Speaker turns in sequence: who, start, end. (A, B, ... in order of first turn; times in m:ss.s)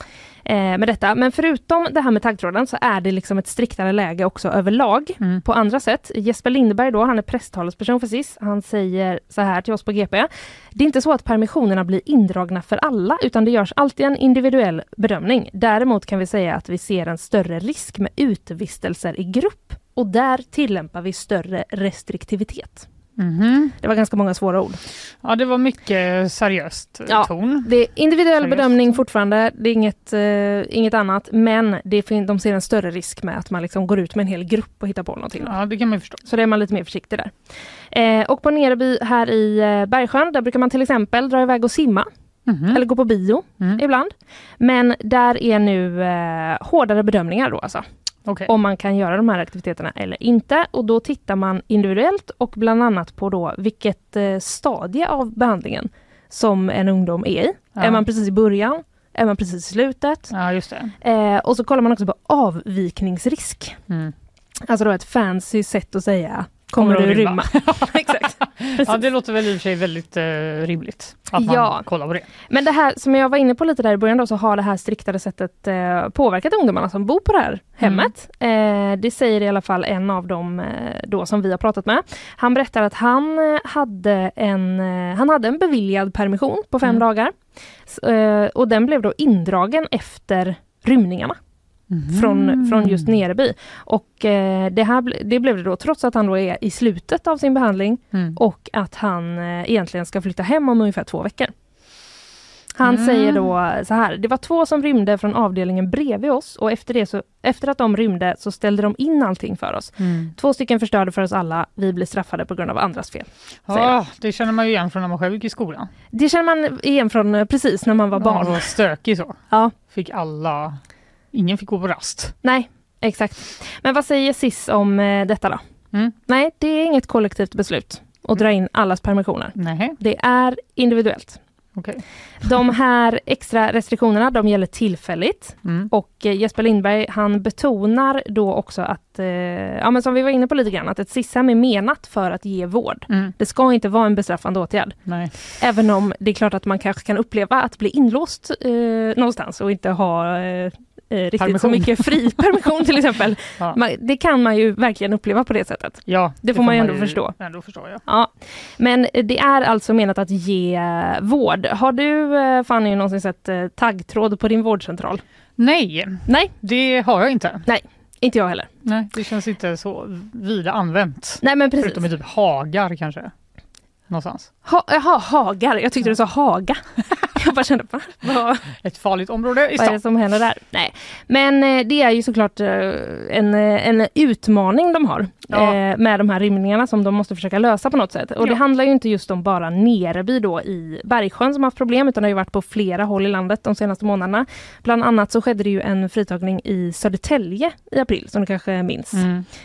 0:00.4-0:22.9 A
0:23.2-0:23.8 B
0:23.8-0:24.8 A
0:25.2-0:27.7 B
0:27.1-0:35.6 A
0:28.4-0:29.0 B
0:35.4-0:36.2 B
0:36.2-0:37.3 A
0:37.9-0:42.1 A
0:42.5-0:42.8 B
0:42.7-0:47.8 A
0:48.5-1:00.3 A
0:57.8-0:58.0 B
1:00.3-1:00.9 B
1:01.0-1:03.8 A
1:04.6-1:09.1 A
1:06.8-1:12.3 B
1:11.4-1:11.9 A
1:12.5-1:27.3 A
1:17.8-1:18.1 B
1:27.9-1:31.4 A
1:31.9-1:33.1 B
1:32.1-1:41.5 A
1:38.1-1:38.4 B
1:42.8-1:53.9 A
1:42.8-1:43.5 B
1:50.0-1:50.3 B
1:53.7-1:55.9 B
1:56.1-1:58.7 A
1:58.2-2:00.8 B
2:01.3-2:02.4 B
2:02.4-2:05.6 A
2:06.3-2:11.4 A
2:09.6-2:10.0 B
2:11.8-2:12.0 B
2:12.4-2:37.4 A
2:15.6-2:15.9 B
2:23.1-2:23.3 B
2:25.1-2:25.3 B
2:31.4-2:32.1 B
2:36.1-2:38.0 B
2:38.1-2:45.2 A
2:45.6-2:47.6 B
2:46.3-2:46.5 A
2:47.6-2:48.7 A
2:48.8-2:53.3 B
2:51.4-2:52.0 A
2:54.1-2:54.5 B
2:54.6-2:56.8 A
2:57.3-2:58.6 A
2:58.7-3:00.0 B
2:59.8-3:19.3 A
3:05.5-3:05.8 B
3:19.1-3:19.5 B